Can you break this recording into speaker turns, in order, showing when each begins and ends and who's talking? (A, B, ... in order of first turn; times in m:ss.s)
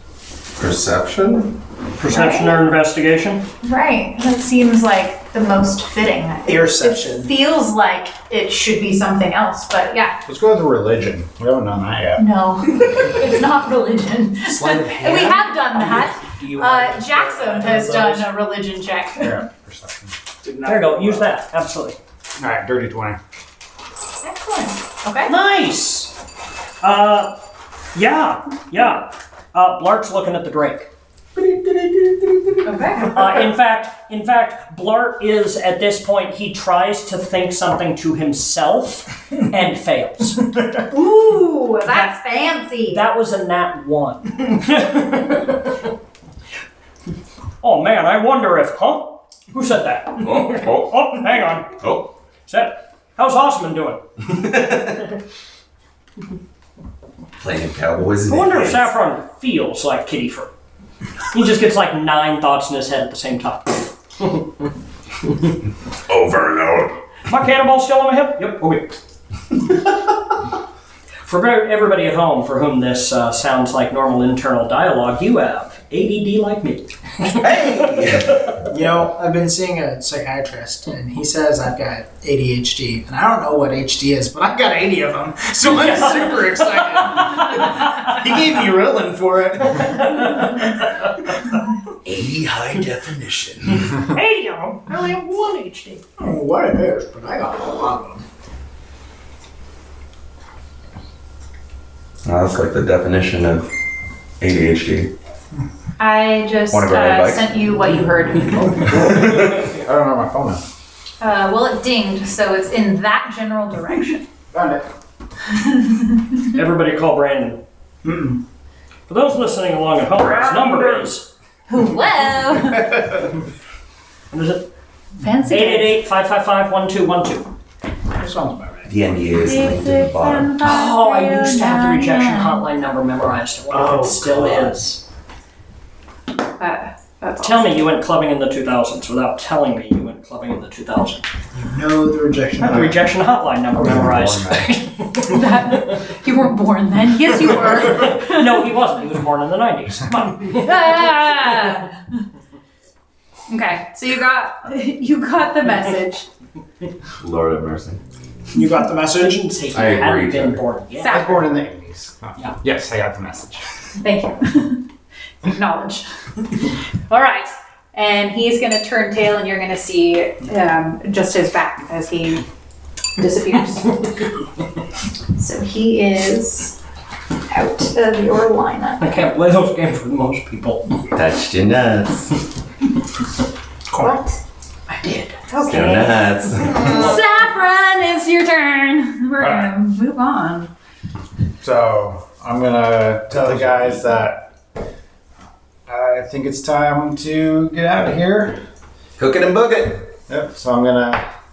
0:00.6-0:01.5 A
0:02.0-0:03.5 B
0:02.0-0:02.6 C
0:03.6-0:10.2 C
0:06.4-0:07.3 D
0:10.2-0:12.2 E
0:12.2-0:19.4 C
0:14.5-0:15.4 A
0:15.6-0:18.3 B
0:19.2-0:20.1 E
0:20.4-0:21.2 D
0:20.6-0:22.0 B
0:22.4-0:23.2 E
0:24.2-0:25.3 C
0:25.3-0:26.1 B
0:26.8-0:27.4 B
0:27.9-0:40.6 B
0:32.6-0:33.2 C
0:40.9-0:43.0 C
0:42.9-0:45.8 B
0:47.6-0:51.8 B
0:50.4-0:50.9 A
0:51.8-0:52.1 A
0:52.5-0:54.7 B
0:54.3-0:54.8 A
0:57.4-0:58.9 A
0:58.2-1:00.5 B
1:01.3-1:04.6 B
1:06.1-1:07.0 A
1:07.3-1:09.0 B
1:11.2-1:18.5 B
1:17.3-1:18.5 A
1:18.7-1:30.9 D
1:25.7-1:27.0 B
1:32.0-1:34.1 A
1:34.0-1:36.0 B
1:36.2-1:38.2 D
1:42.2-1:43.7 A
1:44.4-1:45.1 A
1:46.0-1:49.0 C
1:46.7-1:47.5 A
1:48.6-1:50.6 E
1:48.9-1:49.7 A
1:51.2-1:54.2 C
1:54.5-1:54.9 E
1:55.6-1:56.5 C
1:56.4-1:57.6 B
1:58.0-1:58.4 D
1:59.1-2:01.3 B
2:01.7-2:03.1 C
2:04.3-2:04.7 B
2:05.2-2:06.0 C
2:05.4-2:07.5 B
2:08.1-2:08.9 D
2:08.8-2:10.6 A
2:09.4-2:12.6 C
2:10.6-2:15.0 B
2:13.7-2:14.8 D
2:16.6-2:17.8 C
2:17.4-2:21.3 B
2:21.5-2:23.0 D
2:22.6-2:26.0 B
2:23.7-2:24.7 E
2:25.3-2:28.6 C
2:27.6-2:31.8 B
2:30.5-2:32.0 C
2:33.5-2:36.2 C
2:37.2-2:38.0 A
2:38.5-2:39.4 D
2:39.1-2:41.3 B
2:39.7-2:40.6 A
2:41.0-2:41.5 C
2:41.0-2:43.6 E
2:44.0-2:44.9 C
2:45.4-2:46.1 C
2:47.1-2:52.4 C
2:53.2-2:54.1 C
2:55.3-2:56.8 C
2:57.5-2:59.2 C
2:59.0-3:01.0 B
3:01.1-3:02.4 A
3:03.9-3:04.2 D
3:04.0-3:04.4 C
3:04.9-3:05.4 B
3:05.5-3:10.7 C
3:05.6-3:07.2 A
3:09.4-3:09.7 E
3:11.6-3:14.5 E
3:13.4-3:14.0 A
3:15.9-3:18.6 E
3:19.2-3:20.1 A
3:20.3-3:21.2 E